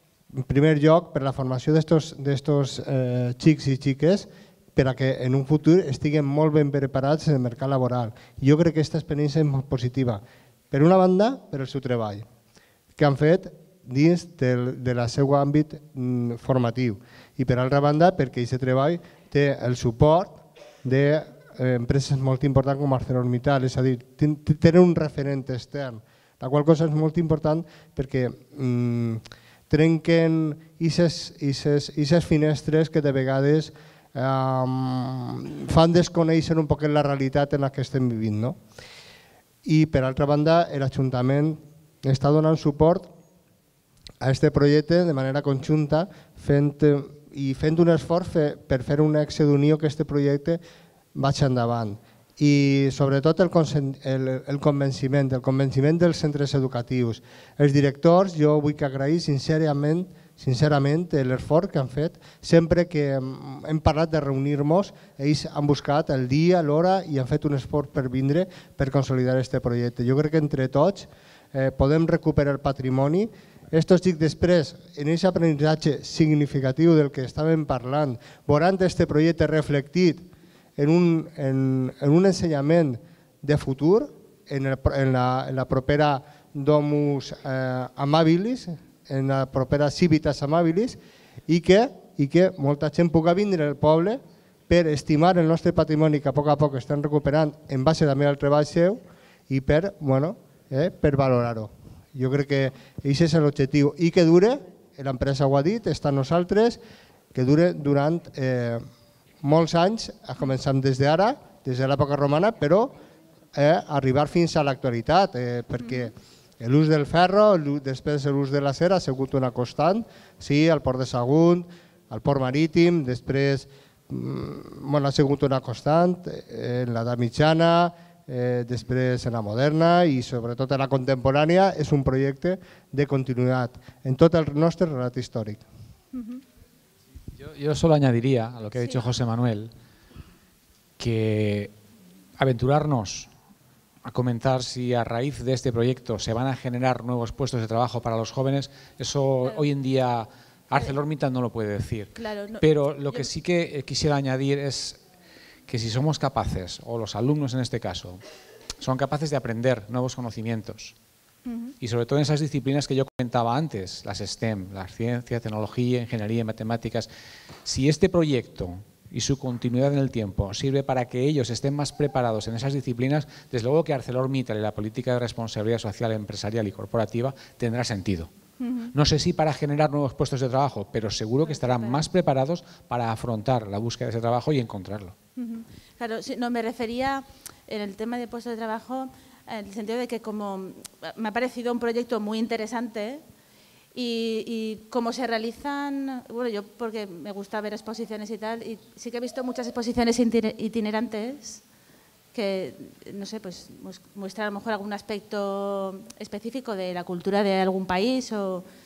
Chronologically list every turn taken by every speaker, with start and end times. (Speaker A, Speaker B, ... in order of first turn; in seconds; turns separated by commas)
Speaker A: 0.3-12.2, Speaker A: 13.0-38.6, Speaker A: 39.6-43.1, Speaker A: 44.2-50.6, Speaker A: 51.1-80.2, Speaker A: 80.8-106.8, Speaker A: 107.3-108.8, Speaker A: 109.4-113.0, Speaker A: 113.5-135.6, Speaker B: 115.8-116.1, Speaker C: 137.4-139.7, Speaker B: 138.7-139.1, Speaker C: 141.0-141.7, Speaker C: 142.4-143.3, Speaker C: 144.0-155.0, Speaker B: 152.1-153.3, Speaker C: 155.7-158.2, Speaker C: 158.8-160.9, Speaker B: 161.4-161.7, Speaker C: 161.8-167.1, Speaker C: 167.6-178.3, Speaker B: 178.6-178.9, Speaker C: 178.9-185.1, Speaker B: 181.4-182.1, Speaker B: 185.3-193.2, Speaker B: 193.9-201.6, Speaker B: 202.3-208.6